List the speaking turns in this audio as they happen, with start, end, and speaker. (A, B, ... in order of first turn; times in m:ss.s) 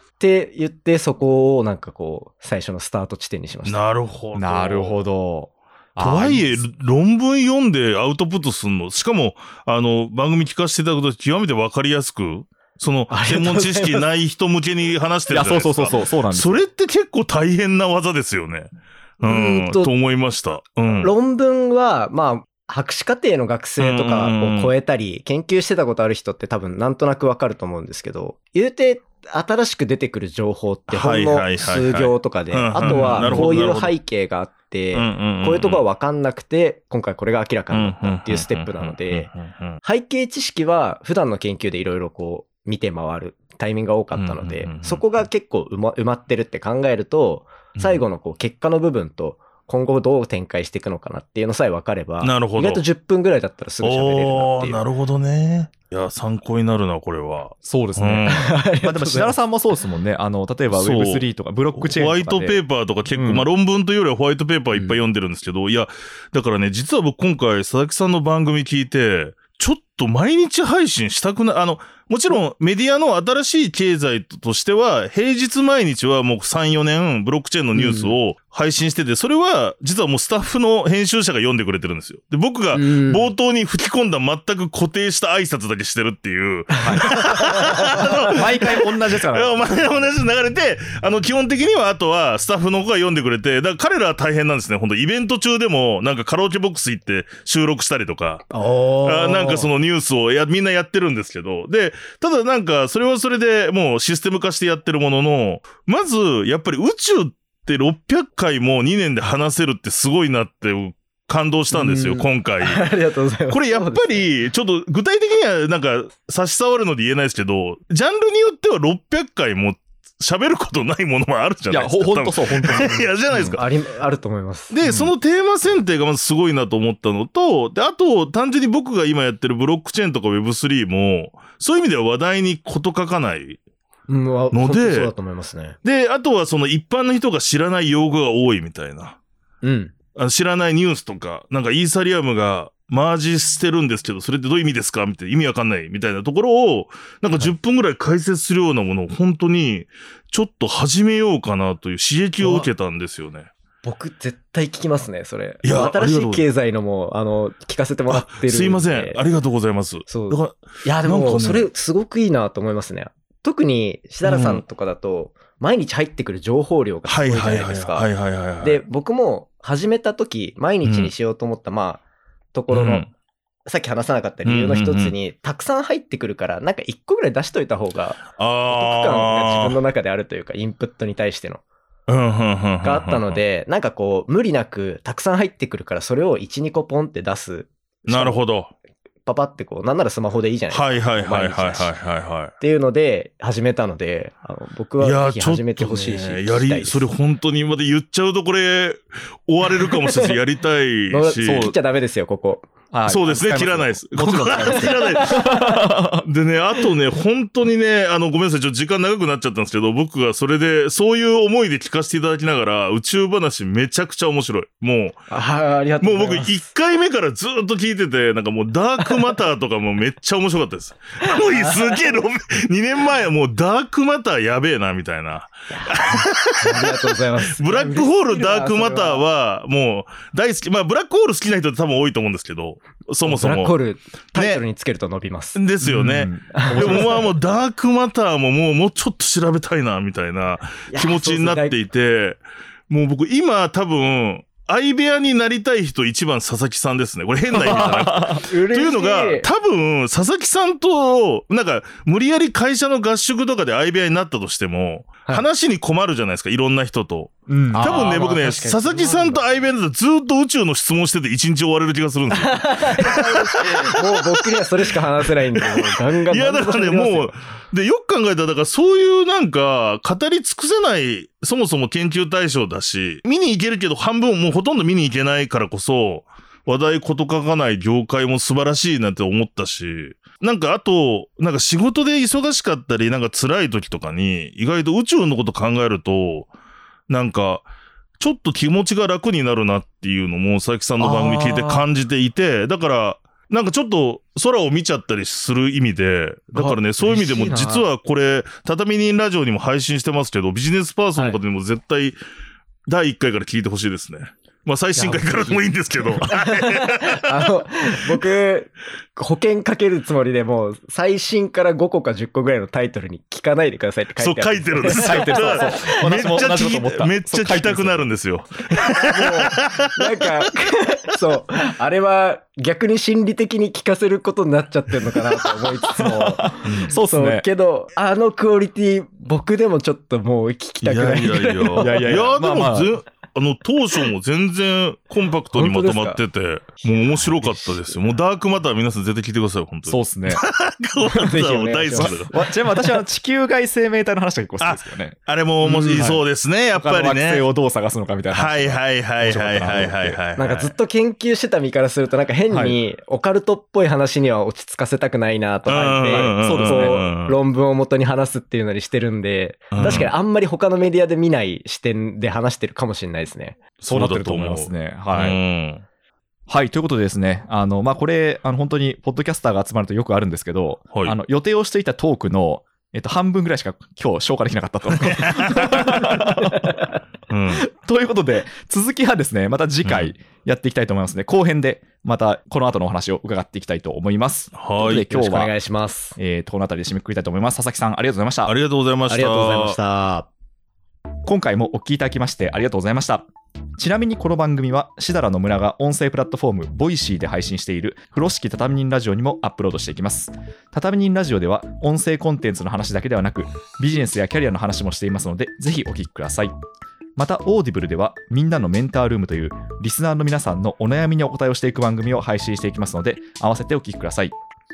0:00.2-0:03.8 A
0:03.6-0:05.0 B
0:04.3-0:06.6 C
0:06.0-0:21.1 B
0:13.1-0:14.1 A
0:15.3-0:16.6 C
0:19.2-0:19.9 A
0:21.0-0:39.3 A
0:23.8-0:24.7 B
0:30.9-0:33.9 B
0:32.9-0:33.4 C
0:34.9-0:35.8 B
0:37.7-0:39.8 B
0:39.8-0:54.8 A
0:44.1-0:45.0 B
0:52.2-0:52.8 B
0:53.8-0:58.4 B
0:57.6-1:03.5 C
0:58.3-0:59.4 A
1:00.7-1:38.5 B
1:17.8-1:18.2 A
1:22.7-1:23.3 A
1:26.8-1:27.2 C
1:27.0-1:27.6 A
1:28.3-1:30.1 C
1:38.5-1:39.7 A
1:39.0-1:52.9 B
1:51.7-1:54.3 A
1:53.5-2:03.6 B
2:01.7-2:03.6 C
2:03.3-2:04.8 A
2:04.7-2:13.6 B
2:04.9-2:05.1 C
2:14.1-2:15.8 A
2:14.5-2:15.1 B
2:15.8-2:19.2 B
2:19.6-2:19.9 A
2:20.2-2:33.5 B
2:32.4-2:32.7 A
2:33.8-2:39.2 A
2:35.6-2:36.4 B
2:38.1-2:41.7 B
2:40.1-2:48.1 A
2:44.2-2:44.6 B
2:47.1-2:48.8 B
2:48.6-2:52.0 A
2:50.8-2:51.1 B
2:52.5-2:53.1 A
2:52.7-2:53.1 B
2:53.7-3:01.6 A
2:54.4-2:55.2 B
2:58.3-2:59.8 B
3:02.1-3:03.4 B
3:02.8-3:08.4 A
3:08.1-3:08.7 B
3:09.3-3:11.9 A
3:10.7-3:12.5 B
3:12.6-3:17.0 A
3:15.0-3:21.7 B
3:20.0-3:20.3 A
3:21.1-3:22.7 A
3:21.4-3:21.8 C
3:22.9-3:26.3 C
3:23.1-3:25.5 B
3:24.6-3:25.7 A
3:26.2-3:35.2 B
3:35.3-3:36.5 A
3:36.0-3:53.8 B
3:41.2-3:42.2 A
3:45.7-3:49.2 A
3:53.2-3:55.6 A
3:54.3-3:54.6 B
3:55.6-4:46.5 B
3:55.8-3:57.3 C
3:56.5-3:57.3 A
4:00.9-4:01.8 A
4:07.5-4:08.4 C
4:07.6-4:09.5 A
4:17.5-4:18.0 C
4:17.7-4:19.4 A
4:22.3-4:27.3 A
4:47.1-4:47.7 B
4:48.2-5:02.2 B
4:51.0-4:51.8 A
4:56.5-4:57.9 A
5:02.9-5:07.3 B
5:05.0-5:16.0 A
5:14.2-5:20.1 B
5:14.9-5:18.1 C
5:18.8-5:32.1 A
5:26.0-5:27.5 C
5:26.6-5:26.9 B
5:30.8-5:42.3 B
5:31.8-5:32.9 C
5:35.5-5:36.2 A
5:36.8-5:38.0 A
5:39.9-5:40.4 C
5:41.0-5:42.4 A
5:42.0-5:50.2 C
5:44.6-5:47.5 B
5:45.7-5:46.2 A
5:48.3-5:50.8 B
5:50.4-6:03.6 A
5:52.5-5:52.8 C
5:55.6-5:57.4 B
5:56.1-5:57.1 C
5:59.7-6:00.1 B
6:03.8-6:05.8 B
6:03.9-6:05.4 C
6:06.5-6:16.7 C
6:10.9-6:11.2 B
6:14.9-6:16.3 B
6:16.6-6:16.9 A
6:17.3-6:17.6 B
6:17.5-6:25.5 C
6:19.8-6:20.2 B
6:24.5-6:25.1 B
6:25.1-6:26.2 A
6:26.2-6:28.5 C
6:28.5-6:29.8 B
6:29.1-6:30.3 A
6:31.3-6:33.3 C
6:33.8-6:46.6 C
6:47.2-6:54.3 C